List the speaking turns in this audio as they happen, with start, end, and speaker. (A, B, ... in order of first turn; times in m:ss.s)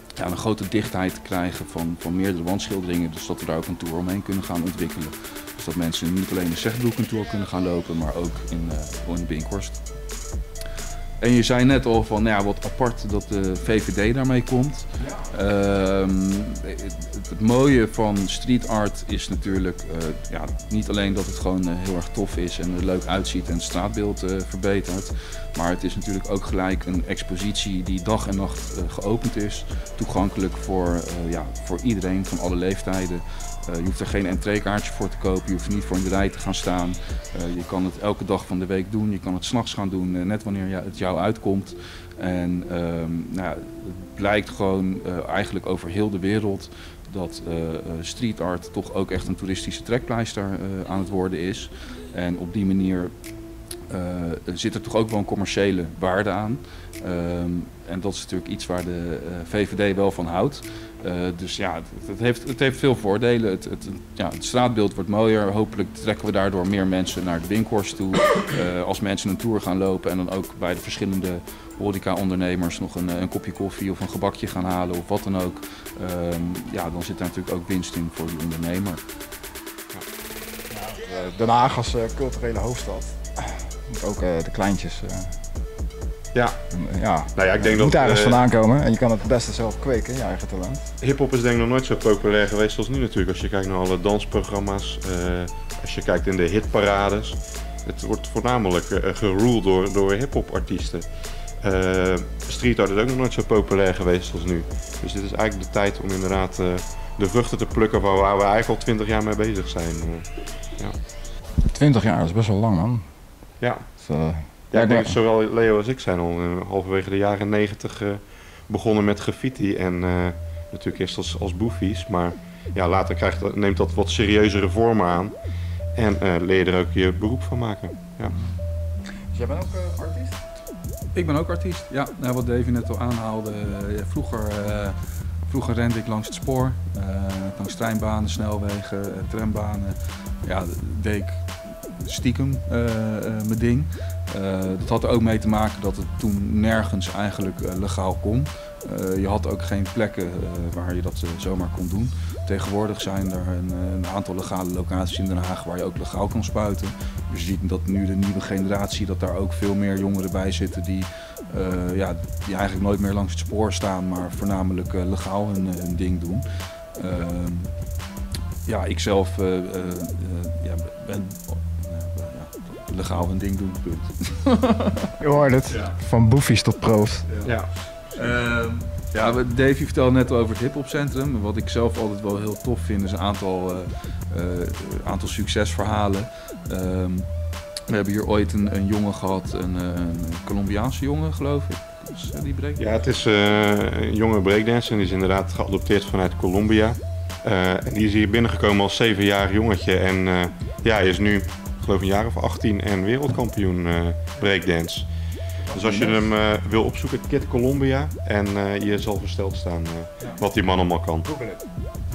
0:00.2-0:09.8 A
0:11.2-0:53.1 A
0:53.9-1:19.0 A
1:20.7-1:25.4 B
1:26.7-1:30.9 B
1:27.4-1:28.4 C
1:31.0-1:41.1 C
1:41.6-1:50.2 C
1:51.7-1:53.0 B
1:53.6-1:53.9 C
1:54.0-1:55.2 B
1:54.7-2:05.4 C
2:06.0-2:08.3 C
2:09.3-2:10.4 B
2:11.1-2:15.0 A
2:15.5-2:47.7 A
2:48.7-2:55.1 A
2:55.2-2:57.3 B
2:55.7-2:56.0 A
2:57.3-2:57.5 A
2:57.4-2:57.7 C
2:58.1-3:07.3 A
3:07.9-3:13.1 A
3:12.8-3:25.1 C
3:25.7-3:26.3 A
3:25.7-3:31.3 C